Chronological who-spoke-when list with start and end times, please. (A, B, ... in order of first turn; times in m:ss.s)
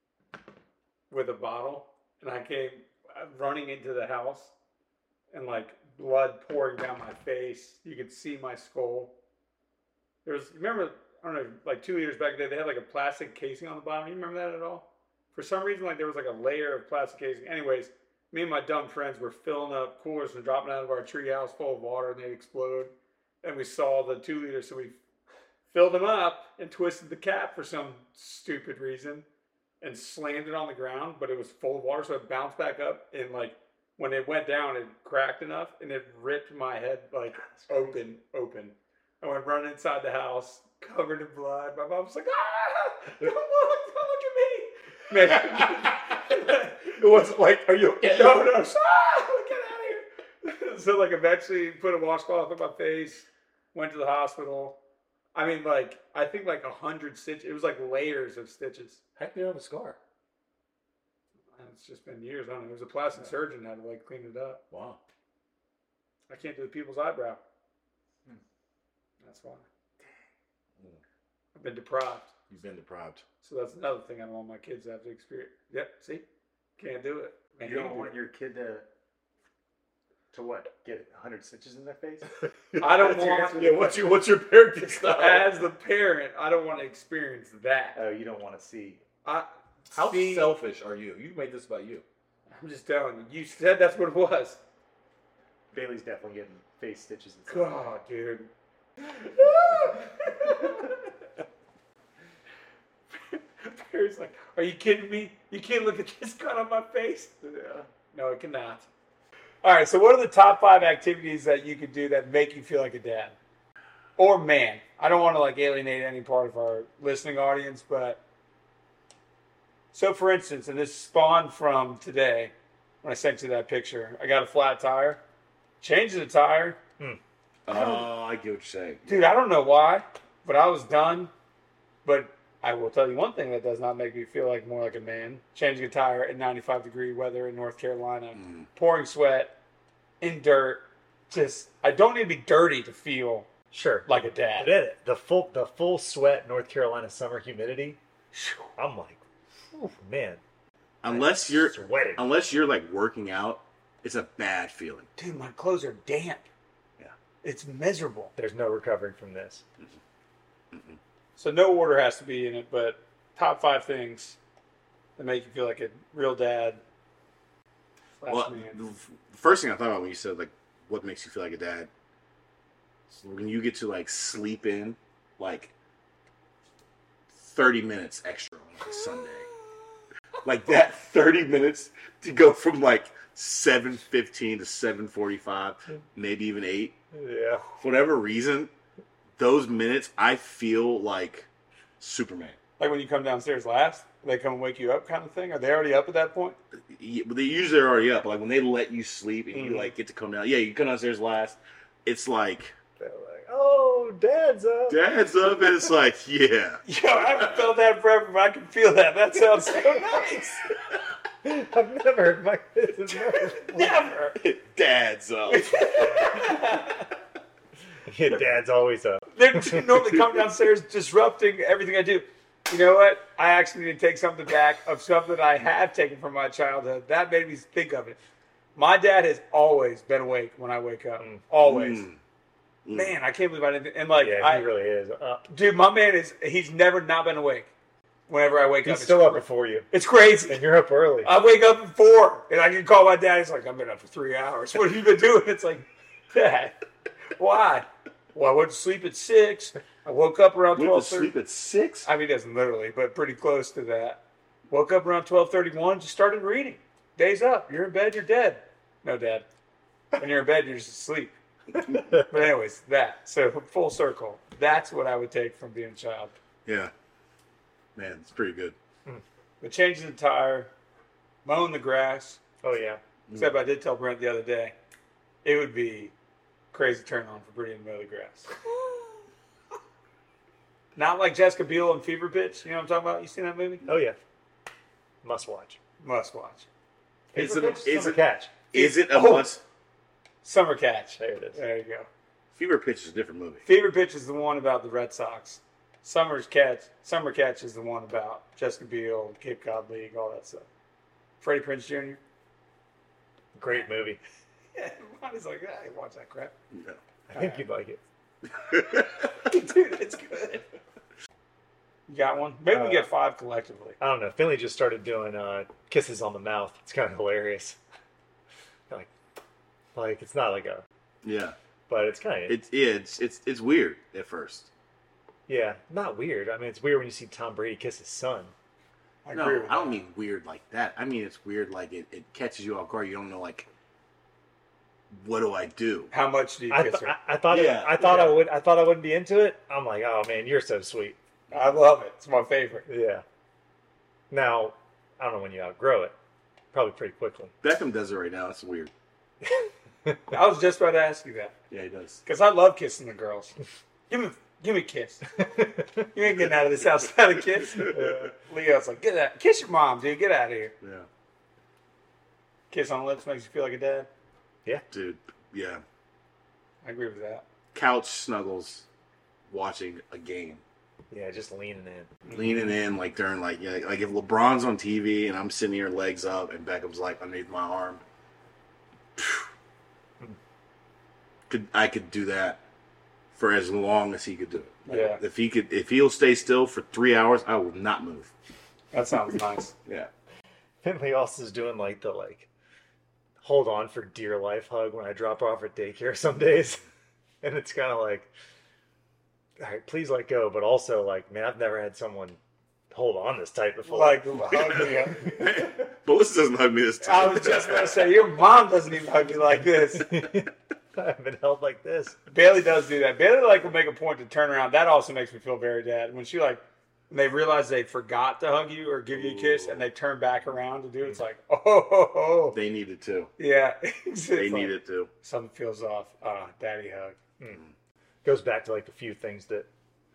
0:01.1-0:04.5 A
0:05.3-0:09.1 A
0:10.2-0:25.0 A
0:25.7-0:29.2 A
0:29.8-0:46.9 A
0:37.4-0:38.0 B
0:45.2-0:48.6 C
0:48.0-0:54.8 A
0:55.3-0:59.0 A
0:59.2-1:00.0 C
1:01.5-1:04.6 A
1:04.7-1:05.0 C
1:06.3-1:07.4 A
1:09.2-1:09.7 A
1:11.5-1:12.3 A
1:12.5-1:13.2 C
1:13.4-1:16.2 A
1:16.8-1:18.1 A
1:17.6-1:18.8 B
1:20.3-1:22.3 B
1:22.5-1:25.5 C
1:22.8-1:24.0 A
1:24.9-1:28.0 A
1:27.9-1:29.0 B
1:29.2-1:30.5 A
1:29.9-1:32.0 C
1:32.5-1:34.6 A
1:35.7-1:37.8 B
1:37.5-1:38.5 A
1:39.2-1:41.1 A
1:43.1-1:47.4 A
1:47.4-1:47.9 B
1:48.1-1:48.9 A
1:49.6-1:53.4 A
1:54.2-1:58.2 A
1:59.9-2:05.2 A
2:05.8-2:06.8 A
2:07.6-2:09.3 C
2:09.0-2:11.3 A
2:12.0-2:19.5 A
2:18.4-2:18.7 C
2:20.2-2:23.5 A
2:23.7-2:28.0 B
2:24.1-2:24.7 A
2:28.8-2:29.2 B
2:29.7-2:30.4 B
2:31.0-2:35.1 C
2:31.1-2:32.2 B
2:35.2-2:36.4 A
2:37.4-2:38.3 A
2:38.4-2:39.6 B
2:40.7-2:41.0 C
2:41.4-2:44.4 A
2:45.2-2:46.8 A
2:48.2-2:48.8 A
2:48.3-2:51.9 C
2:53.1-2:55.7 C
2:57.3-2:59.5 C
3:00.4-3:07.0 C
3:07.1-3:07.6 B
3:07.7-3:08.7 C
3:09.4-3:11.5 C
3:12.0-3:12.6 C
3:12.8-3:16.6 A
3:16.7-3:22.7 C
3:19.5-3:19.9 A
3:23.0-3:25.0 B
3:24.9-3:27.6 C
3:26.8-3:30.6 A
3:29.9-3:31.0 C
3:31.4-3:34.0 B
3:33.3-3:34.4 A
3:34.4-3:36.1 C
3:35.5-3:37.1 A
3:38.0-3:40.0 B
3:39.3-3:48.2 A
3:48.8-3:52.0 A
3:51.6-3:52.2 C
3:52.8-3:53.2 C
3:52.9-3:54.7 A
3:54.2-3:55.4 B
3:55.5-3:57.7 A
3:58.3-4:00.6 A
3:58.8-3:59.9 B
4:00.4-4:01.3 B
4:01.2-4:06.8 A
4:07.4-4:11.3 A
4:10.7-4:12.1 C
4:12.0-4:19.4 A
4:20.2-4:21.3 A
4:22.3-4:26.4 A
4:26.6-4:26.9 C
4:27.9-4:28.8 C
4:29.6-4:30.7 A
4:31.4-4:32.4 A
4:32.6-4:33.0 B
4:33.3-4:34.7 A
4:35.4-4:36.1 A
4:36.7-4:38.5 A
4:41.0-4:43.8 A
4:43.8-4:44.2 B
4:45.2-4:45.8 B
4:46.0-4:46.7 A
4:47.3-4:48.2 C
4:47.3-4:48.5 B
4:47.4-4:47.9 A
4:48.7-4:49.5 A
4:48.7-4:49.6 C
4:50.4-4:52.1 A
4:51.2-4:51.6 B
4:52.5-4:53.6 C
4:53.6-5:00.6 A
5:01.4-5:02.2 A
5:03.5-5:04.2 B
5:04.7-5:06.5 A
5:06.7-5:07.0 C
5:07.3-5:08.0 B
5:07.3-5:07.6 A
5:08.6-5:09.3 C
5:09.3-5:10.6 A
5:12.1-5:14.0 A
5:12.7-5:13.1 B
5:14.0-5:17.8 B
5:19.9-5:20.8 B
5:21.2-5:21.6 C
5:21.9-5:22.6 B
5:22.5-5:24.7 C
5:25.5-5:28.5 B
5:29.2-5:30.0 A
5:29.3-5:33.7 C
5:35.1-5:36.1 C
5:36.1-5:37.2 A
5:36.7-5:41.2 B
5:37.5-5:38.3 C
5:38.0-5:38.3 A
5:41.5-5:42.9 A
5:42.9-5:43.2 B
5:44.3-5:46.1 B
5:46.7-5:47.5 B
5:47.6-5:48.9 C
5:50.3-5:51.5 A
5:51.7-5:52.2 C
5:52.2-5:53.5 A
5:54.1-5:55.3 A
5:56.0-6:00.7 A
5:57.7-5:58.0 C
5:57.9-5:58.3 B
6:00.8-6:01.1 C
6:02.7-6:04.1 A
6:04.9-6:05.8 C
6:06.8-6:07.4 A
6:07.7-6:08.9 C
6:09.5-6:10.6 C
6:11.1-6:12.2 B
6:12.3-6:18.0 C
6:19.2-6:19.5 C
6:21.5-6:22.6 C
6:23.3-6:28.3 C
6:24.9-6:25.2 A
6:28.9-6:29.7 A
6:30.8-6:32.5 B
6:33.4-6:36.8 B
6:37.4-6:38.3 B
6:39.6-6:44.2 B
6:43.8-6:45.3 A
6:44.5-6:48.1 C
6:47.0-6:50.1 A
6:49.9-6:52.2 B
6:52.3-7:02.6 A
6:59.1-6:59.9 C
7:02.5-7:03.3 C
7:03.4-7:07.2 A
7:04.3-7:05.1 C
7:08.2-7:09.7 B